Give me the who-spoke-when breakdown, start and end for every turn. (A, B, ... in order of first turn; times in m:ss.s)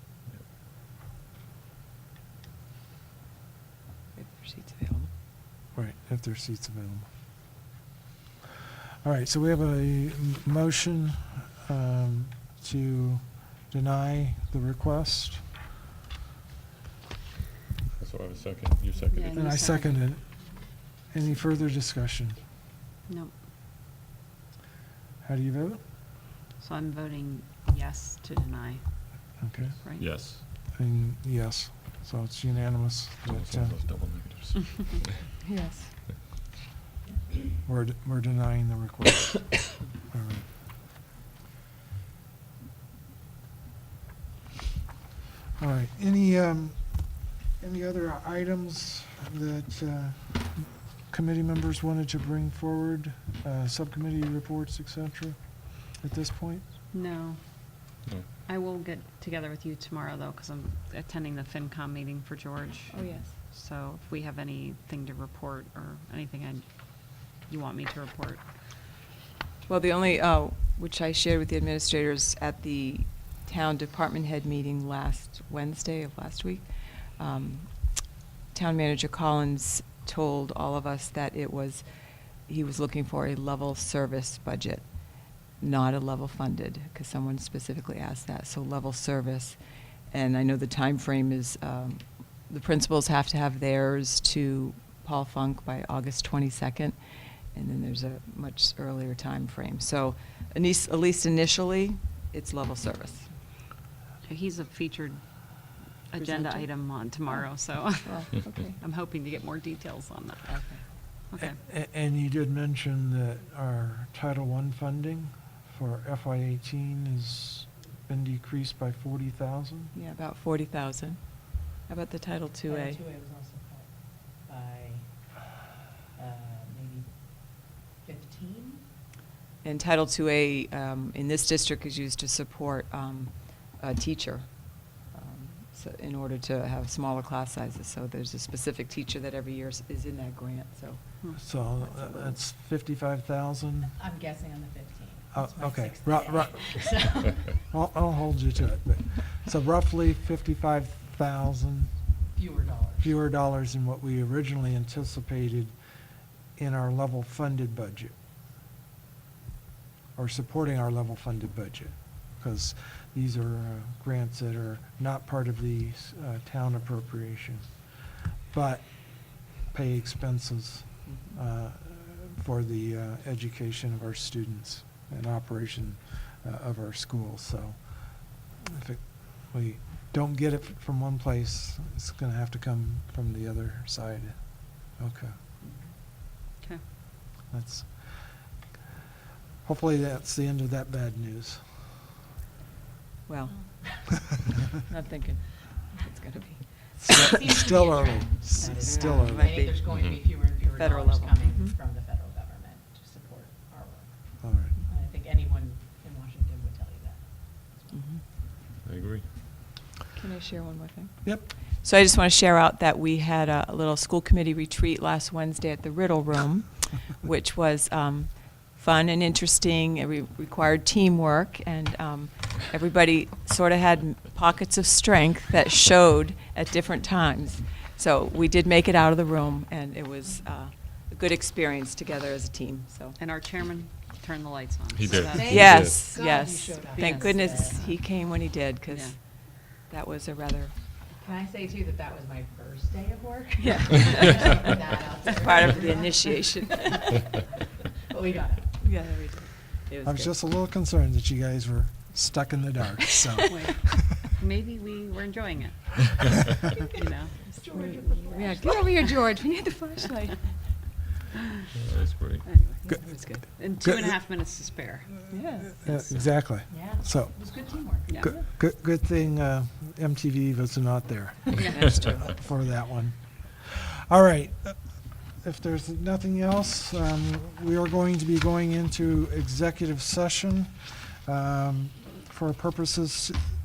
0:04.1-0:05.1 A
0:05.7-0:07.1 B
0:09.0-0:15.5 B
0:18.0-0:19.5 C
0:19.1-0:20.1 D
0:19.3-0:20.2 B
0:21.1-0:22.4 B
0:23.1-0:23.3 D
0:25.2-0:25.8 B
0:26.6-0:28.8 D
0:29.4-0:33.8 B
0:29.8-0:30.1 D
0:30.0-0:30.4 C
0:33.3-0:35.2 C
0:35.4-0:35.9 A
0:37.6-0:40.5 B
0:45.6-0:56.6 B
0:56.9-0:57.9 D
0:58.4-1:06.7 D
1:02.9-1:03.3 A
1:07.4-1:08.4 D
1:09.6-1:16.6 A
1:17.2-1:21.8 A
1:22.4-1:24.8 A
1:25.6-1:29.6 A
1:30.1-1:37.0 A
1:37.5-1:43.3 A
1:44.2-1:51.6 D
1:46.2-1:46.7 A
1:48.0-1:48.8 A
1:50.5-1:50.8 A
1:51.4-1:59.9 B
1:59.9-2:03.0 A
2:02.7-2:05.1 E
2:06.1-2:08.8 E
2:09.6-2:21.0 A
2:21.4-2:24.0 B
2:21.8-2:22.4 A
2:24.0-2:27.5 E
2:25.3-2:31.9 B
2:32.3-2:33.1 E
2:33.0-2:35.7 B
2:36.6-2:38.1 B
2:40.2-3:05.3 B
2:51.0-2:51.3 A
3:07.5-3:08.5 B
3:09.6-3:11.9 B
3:13.3-3:14.0 A
3:14.9-3:16.6 A
3:17.0-3:19.6 B
3:17.2-3:24.3 E
3:18.7-3:21.7 A
3:19.8-3:20.2 C
3:24.4-3:24.8 B
3:24.9-3:28.0 E
3:27.9-3:28.2 A
3:28.8-3:29.3 C
3:30.1-3:53.2 A
3:53.2-3:55.5 D
3:54.9-3:56.1 C
3:55.2-3:57.8 E
3:55.4-4:00.7 A
3:56.9-3:57.6 D
3:58.9-3:59.2 D
4:01.2-4:06.4 E
4:03.6-4:07.2 A
4:08.1-4:08.8 E
4:08.8-4:10.3 A
4:10.0-4:14.2 B
4:13.5-4:16.3 D
4:16.9-4:17.4 D
4:17.5-4:18.8 E
4:17.6-4:20.5 A
4:21.7-4:22.5 C
4:22.4-4:22.8 D
4:22.8-4:23.4 A
4:23.6-4:25.3 D
4:23.8-4:24.1 B
4:25.3-4:25.9 A
4:25.8-4:43.4 B
4:26.7-4:28.1 E
4:31.6-4:31.9 D
4:31.7-4:32.2 A